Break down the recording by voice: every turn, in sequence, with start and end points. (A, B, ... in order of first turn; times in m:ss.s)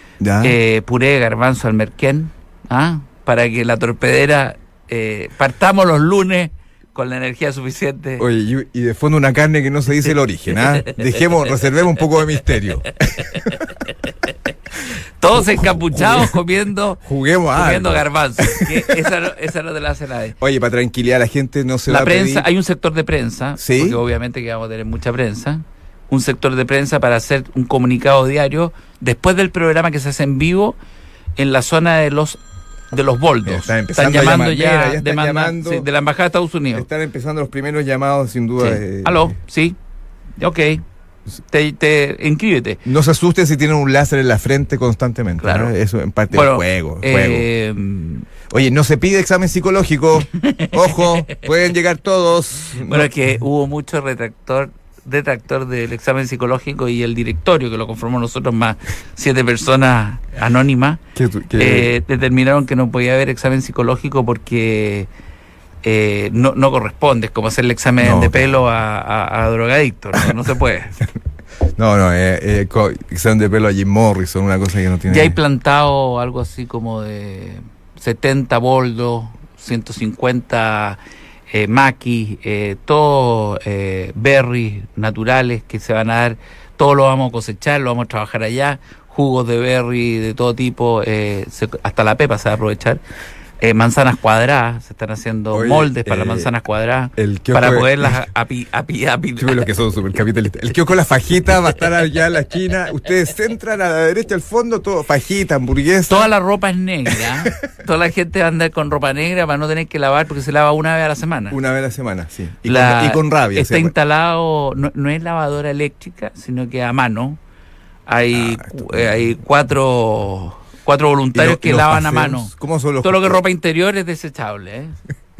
0:00.2-0:00.6 A
0:00.4-0:08.2 B
0:08.2-0:13.7 A
0:15.2-0:17.0 B
0:15.3-0:16.3 A
0:17.0-0:18.9 A
0:17.5-0:20.4 B
0:20.4-0:22.5 A
0:21.9-0:30.8 B
0:23.6-0:24.0 A
0:31.4-0:32.4 B
0:32.9-0:36.9 B
0:33.4-0:35.9 A
0:36.8-0:39.4 A
0:38.6-0:39.8 B
0:40.4-0:40.8 B
0:41.5-0:42.8 B
0:42.8-0:47.5 A
0:45.4-0:45.7 B
0:46.3-0:48.3 B
0:48.5-0:53.1 A
0:50.4-0:51.4 B
0:52.8-1:01.0 B
1:01.2-1:01.9 A
1:01.6-1:05.1 B
1:05.8-1:11.0 B
1:08.0-1:08.6 A
1:11.8-1:15.4 A
1:15.1-1:21.0 B
1:21.5-1:33.0 B
1:33.6-1:39.7 B
1:35.5-1:36.5 A
1:37.2-1:38.2 A
1:39.4-1:46.3 A
1:46.1-1:51.6 B
1:51.5-1:53.9 A
1:52.6-1:57.4 B
1:58.1-2:05.0 B
1:58.3-1:59.1 A
2:01.3-2:03.4 A